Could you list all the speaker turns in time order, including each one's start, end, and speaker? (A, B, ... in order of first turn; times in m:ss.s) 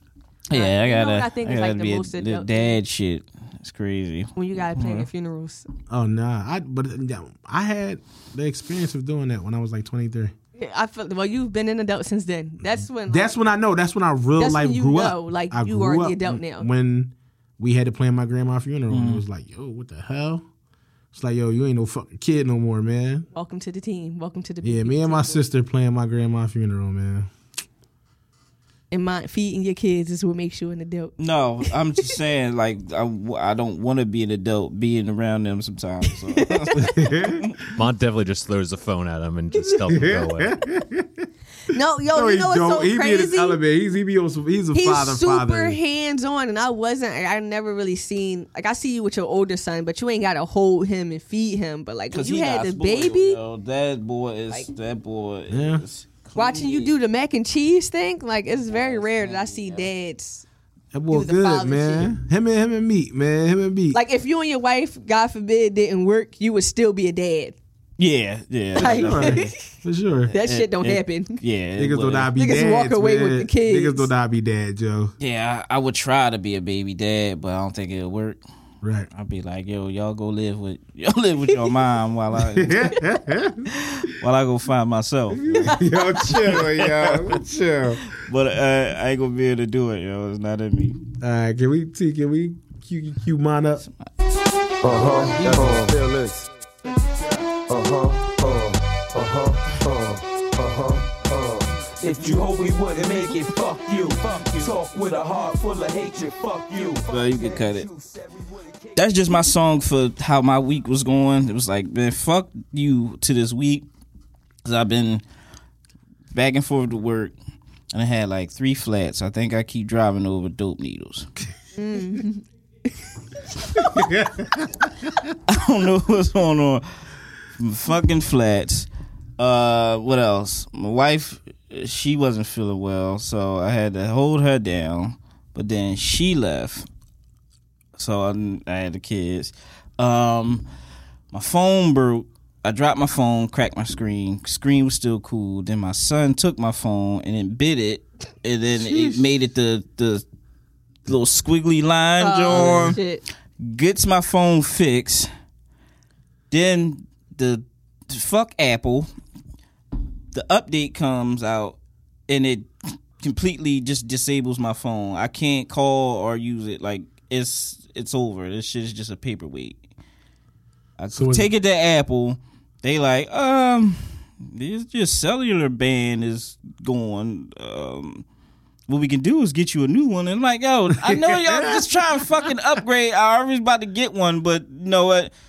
0:00.5-0:05.1 A
0:00.5-0:02.8 B
0:04.4-0:05.7 B
0:05.9-0:10.3 C
0:10.6-0:13.3 B
0:13.1-0:20.4 C
0:14.4-0:16.6 B
0:18.9-0:19.2 A
0:21.1-0:23.2 C
0:23.3-0:25.4 B
0:24.6-0:27.3 C
0:28.9-0:31.1 B
0:31.2-0:37.6 A
0:36.2-0:37.1 B
0:36.8-0:37.4 C
0:37.8-0:40.6 D
0:39.5-0:39.8 B
0:39.8-0:41.2 C
0:41.7-0:43.6 B
0:42.1-0:45.8 C
0:44.7-0:53.4 B
0:52.1-0:56.9 A
0:55.5-0:55.8 C
0:56.4-1:00.4 B
0:58.7-0:59.9 A
1:00.9-1:04.0 C
1:01.1-1:02.1 B
1:03.9-1:07.5 B
1:08.0-1:09.5 A
1:08.8-1:10.3 C
1:08.8-1:09.5 B
1:10.2-1:12.3 A
1:10.3-1:11.4 B
1:11.8-1:15.1 C
1:12.4-1:14.1 B
1:15.2-1:18.4 A
1:18.8-1:19.1 C
1:19.1-1:23.1 A
1:22.4-1:23.7 C
1:23.7-1:27.4 A
1:25.3-1:28.0 C
1:28.0-1:31.0 A
1:31.2-1:33.8 C
1:34.8-1:36.4 C
1:34.8-1:35.9 A
1:34.8-1:36.0 E
1:37.6-1:49.3 E
1:47.1-1:47.9 A
1:49.0-1:53.8 A
1:54.6-1:55.2 A
1:56.3-1:57.3 A
1:57.9-2:01.3 A
2:01.8-2:02.4 B
2:03.6-2:04.1 B
2:03.8-2:05.3 C
2:05.5-2:06.8 A
2:07.6-2:16.9 A
2:18.0-2:20.6 A
2:21.3-2:30.2 A
2:28.8-2:29.3 C
2:31.0-2:33.0 A
2:32.2-2:33.2 B
2:33.6-2:35.3 A
2:36.5-2:39.1 A
2:40.3-2:49.8 A
2:51.0-2:58.2 A
2:51.1-2:51.5 C
2:58.9-3:05.3 A
3:01.0-3:01.9 C